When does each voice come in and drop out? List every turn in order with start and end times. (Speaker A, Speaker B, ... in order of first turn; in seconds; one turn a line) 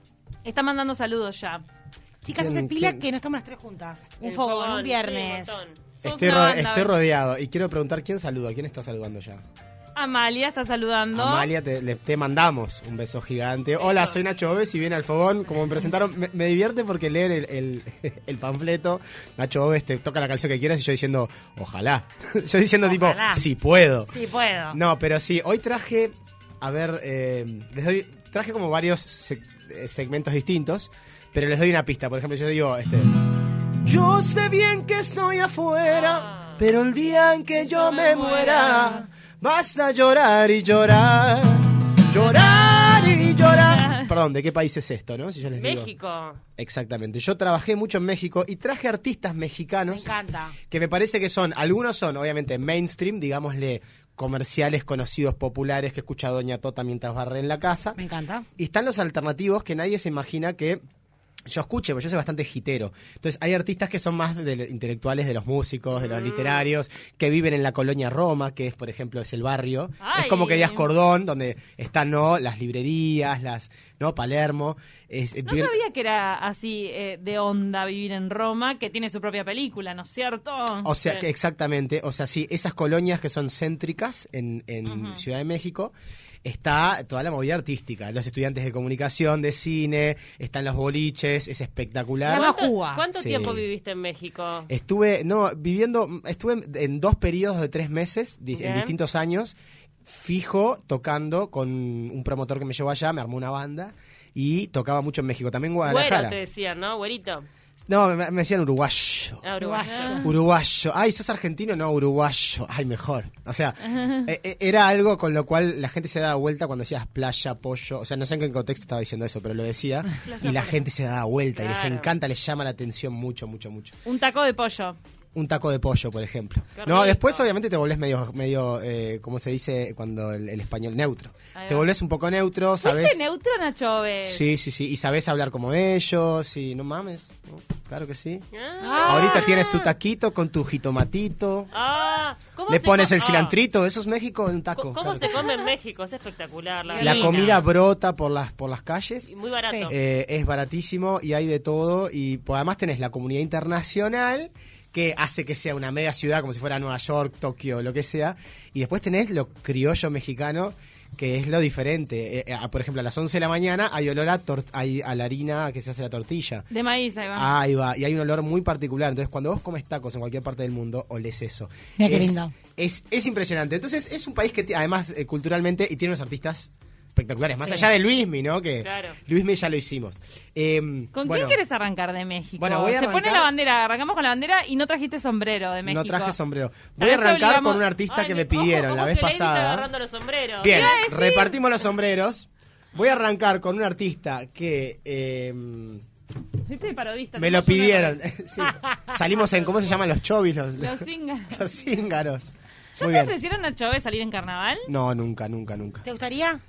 Speaker A: 0.4-1.6
Speaker B: 2.2-5.6
Speaker C: 2.4-3.0
Speaker D: 4.2-5.8
Speaker C: 6.0-9.4
Speaker A: 6.0-6.9
Speaker A: 10.0-11.5
Speaker C: 11.1-24.1
Speaker D: 13.8-14.2
Speaker B: 22.8-23.4
Speaker B: 24.1-24.8
Speaker C: 24.7-33.1
Speaker C: 33.8-45.9
Speaker D: 35.9-36.6
Speaker D: 37.6-39.0
Speaker A: 38.3-38.9
Speaker A: 43.5-44.1
Speaker D: 45.5-46.4
Speaker C: 46.6-50.1
Speaker B: 49.9-50.6
Speaker C: 50.7-58.0
Speaker B: 58.0-58.5
Speaker C: 58.6-60.8
Speaker C: 61.5-75.8
Speaker D: 66.0-66.7
Speaker A: 70.0-70.9
Speaker A: 75.5-80.9
Speaker C: 80.8-92.5
Speaker B: 84.8-85.2
Speaker B: 92.2-93.0
Speaker D: 92.3-94.7
Speaker C: 93.2-93.7
Speaker C: 94.7-106.4
Speaker D: 98.5-98.9
Speaker D: 105.8-107.5
Speaker C: 107.9-109.4
Speaker D: 109.4-110.2
Speaker B: 109.6-110.3
Speaker A: 109.9-110.2
Speaker C: 110.2-124.0
Speaker A: 113.9-114.2
Speaker A: 120.3-120.8
Speaker D: 121.6-122.1
Speaker A: 124.1-125.0
Speaker C: 125.3-133.2
Speaker D: 126.8-127.5
Speaker A: 131.6-131.9
Speaker A: 132.8-134.5
Speaker C: 134.3-138.4
Speaker D: 138.5-139.9
Speaker B: 138.8-139.5
Speaker C: 139.1-141.7
Speaker D: 141.7-143.6
Speaker C: 142.7-145.5
Speaker D: 144.8-147.7
Speaker A: 146.9-147.6
Speaker C: 147.0-149.3
Speaker D: 149.3-150.0
Speaker B: 149.6-149.9
Speaker C: 149.9-166.7
Speaker A: 166.7-167.5
Speaker C: 167.3-181.6
Speaker B: 172.0-172.5
Speaker D: 178.8-179.2
Speaker A: 181.1-186.4
Speaker C: 182.6-183.5
Speaker C: 185.8-189.9
Speaker A: 187.0-187.8
Speaker D: 188.1-191.0
Speaker C: 190.6-196.0
Speaker A: 190.7-191.6
Speaker A: 196.7-198.2
Speaker C: 197.4-203.3
Speaker A: 200.8-201.7
Speaker A: 203.0-204.9
Speaker C: 204.9-206.0
Speaker B: 206.0-206.6